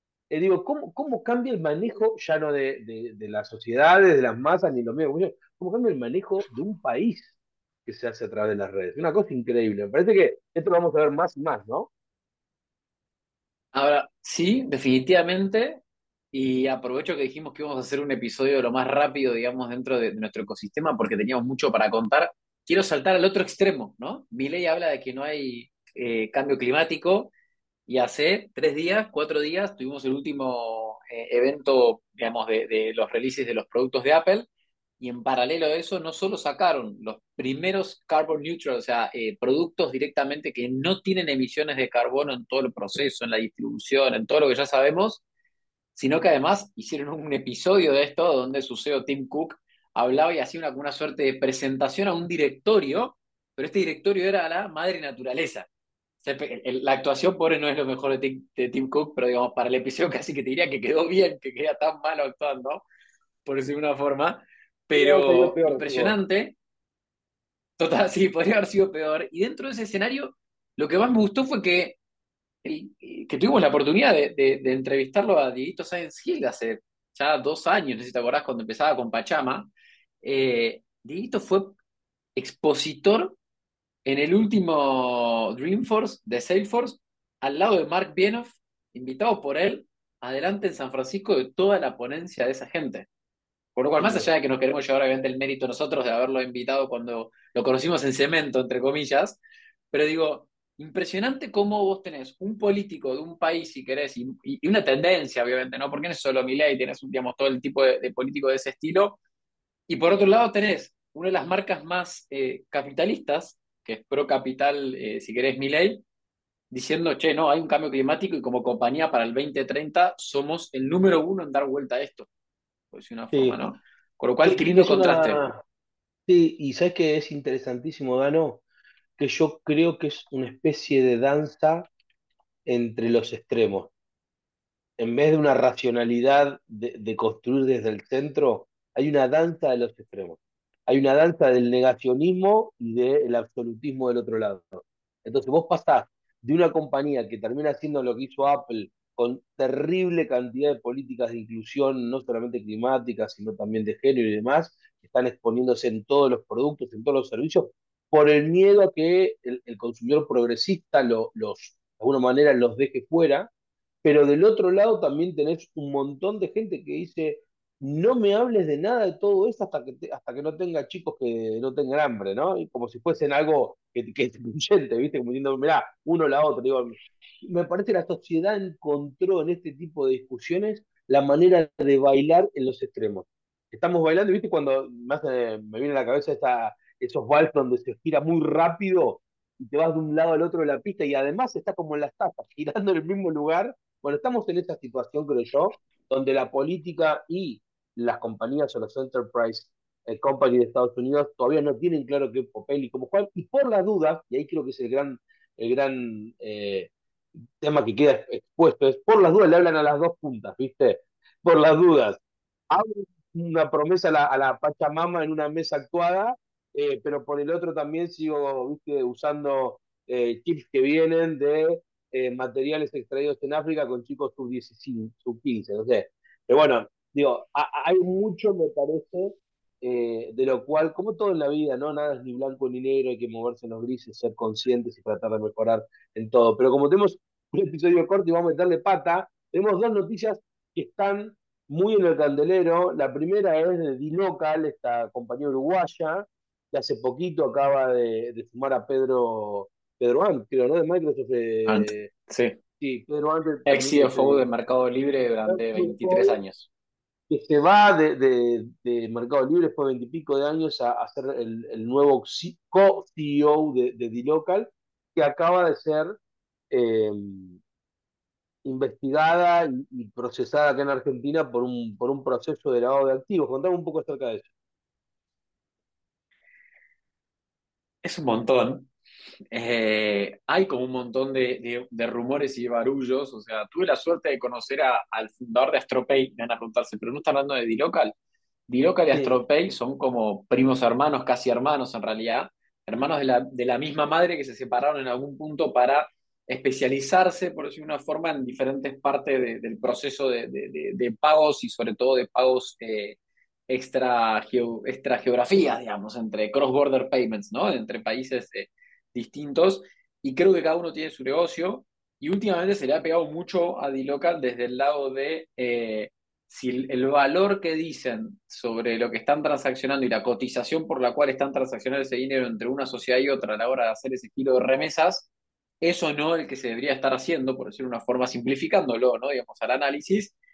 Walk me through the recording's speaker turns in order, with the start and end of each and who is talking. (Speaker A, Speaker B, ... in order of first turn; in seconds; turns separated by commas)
Speaker A: 0.3-7.3, Speaker A: 7.8-11.9, Speaker B: 13.7-15.8, Speaker B: 16.3-27.3, Speaker B: 27.9-34.5, Speaker B: 35.0-45.2, Speaker B: 45.9-55.7, Speaker B: 56.2-62.9, Speaker B: 63.4-66.6, Speaker A: 64.9-66.1, Speaker B: 67.8-72.0, Speaker B: 72.6-79.7, Speaker B: 80.2-81.8, Speaker B: 82.3-83.4, Speaker B: 84.0-93.1, Speaker B: 93.8-99.4, Speaker A: 94.0-94.3, Speaker B: 99.9-109.2, Speaker B: 109.9-116.0, Speaker B: 116.7-122.3, Speaker B: 122.9-125.4, Speaker A: 123.3-123.6, Speaker A: 124.4-125.6, Speaker A: 126.3-128.6, Speaker A: 129.2-131.9, Speaker A: 132.7-133.9, Speaker A: 135.0-163.5, Speaker A: 164.0-206.9, Speaker A: 207.6-252.1, Speaker B: 251.7-252.6, Speaker A: 252.8-254.4, Speaker B: 253.7-256.7, Speaker A: 255.5-256.4, Speaker A: 257.3-266.1, Speaker A: 266.7-267.6, Speaker A: 268.6-274.5, Speaker B: 278.0-278.9, Speaker B: 279.5-288.1, Speaker B: 288.7-325.3, Speaker A: 289.1-289.4, Speaker B: 325.8-330.3